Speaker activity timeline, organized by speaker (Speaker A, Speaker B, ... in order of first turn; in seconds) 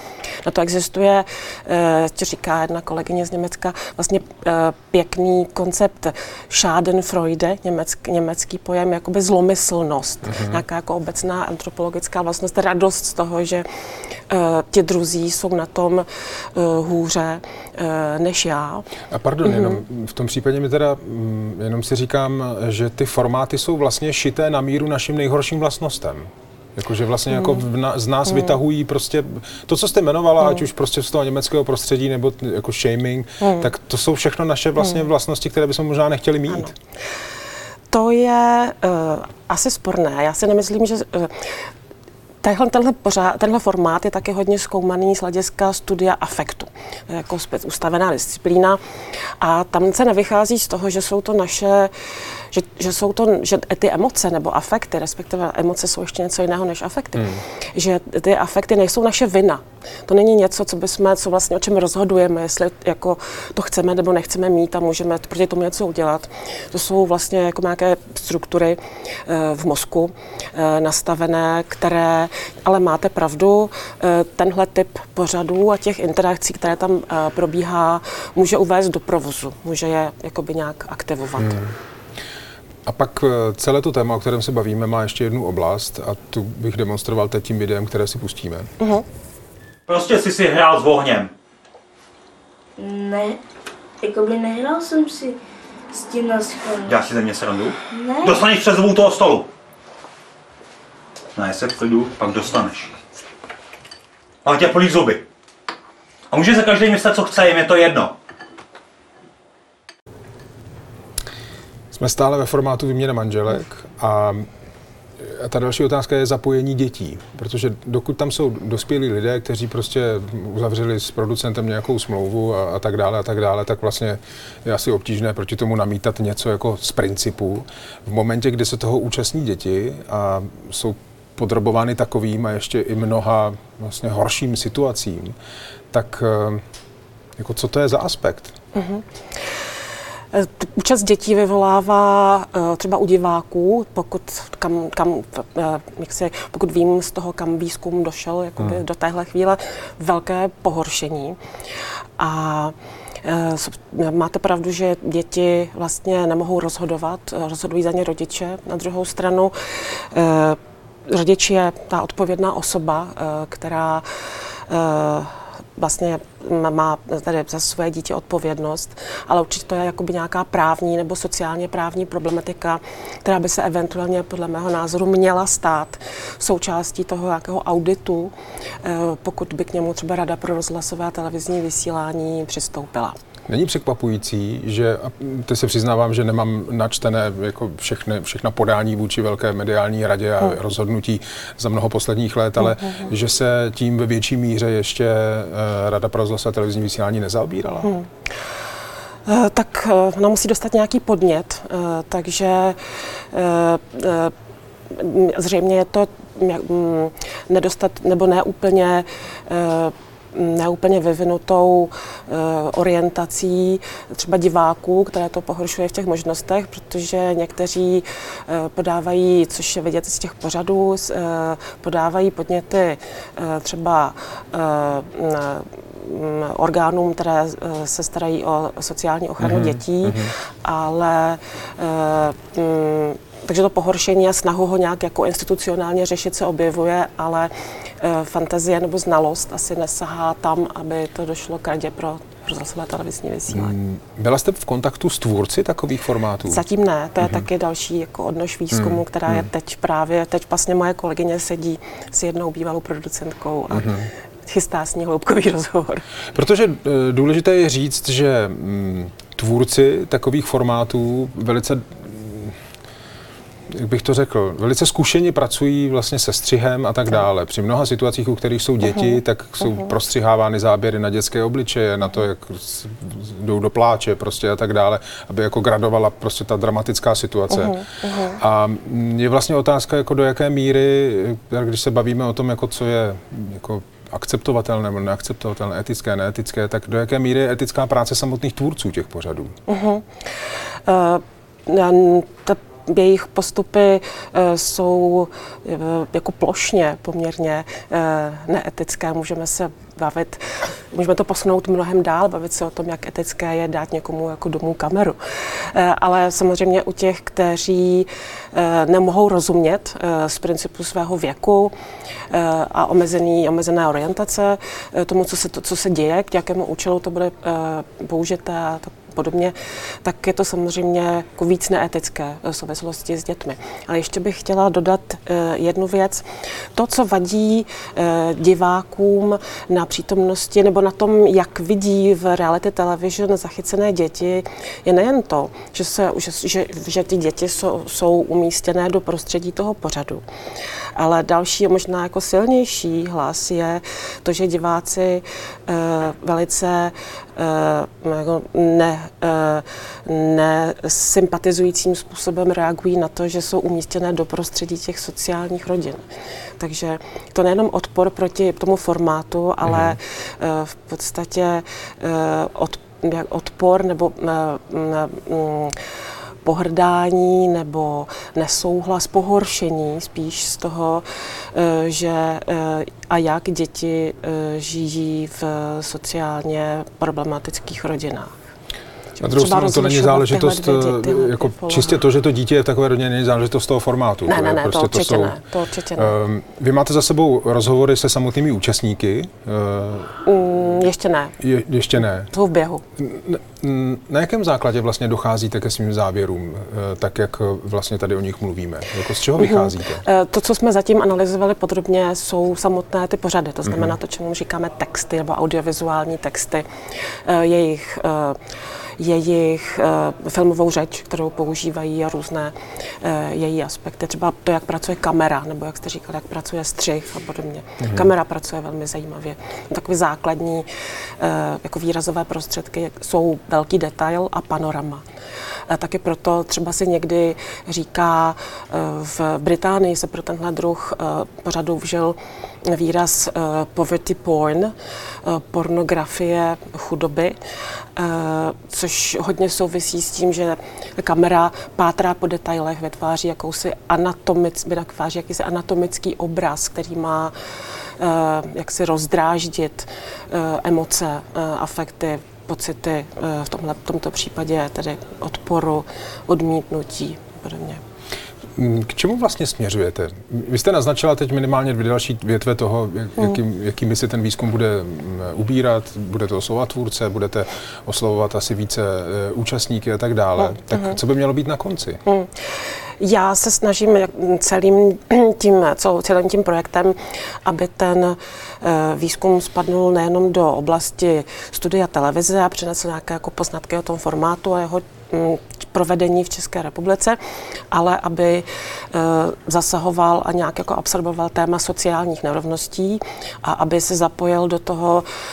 Speaker A: 0.4-13.6, 14.3-18.9, 33.4-33.7, 36.5-36.7, 37.9-41.5, 42.4-48.8, 49.4-51.9, 52.5-81.6, 138.7-139.0, 140.3-151.4, 152.2-164.0, 164.7-183.2, 199.2-204.3, 204.9-243.7, 246.5-253.9, 254.4-256.1, 277.6-278.3, 289.7-290.1, 290.9-311.7, 312.3-340.2, 340.9-356.0, 356.6-365.7, 366.4-378.4, 379.2-382.0, 384.3-386.1, 390.2-391.3, 392.3-392.8, 399.4-406.6, 407.2-408.4, 409.0-420.6, 421.2-425.0, 425.7-434.7, 435.2-437.4, 437.9-447.3, 448.0-457.8, 472.1-472.3, 473.0-487.2, 487.7-495.0
Speaker B: 10.3-10.6, 19.1-36.7, 81.4-81.7, 82.8-88.7, 111.9-114.5, 115.2-135.3, 135.9-136.6, 137.4-138.5, 183.5-197.9, 229.4-230.3, 243.5-246.6, 248.7-249.5, 253.7-254.1, 256.3-262.6, 263.7-289.5, 359.6-360.0, 379.2-385.4, 386.0-390.2, 391.4-392.3, 393.0-400.0, 403.6-403.9, 417.8-418.1, 458.6-472.0
Speaker C: 89.9-91.3, 96.8-99.5, 101.3-102.9, 104.4-105.2, 106.3-108.1
Speaker D: 92.8-93.4, 94.0-95.4, 96.0-97.0, 97.9-98.4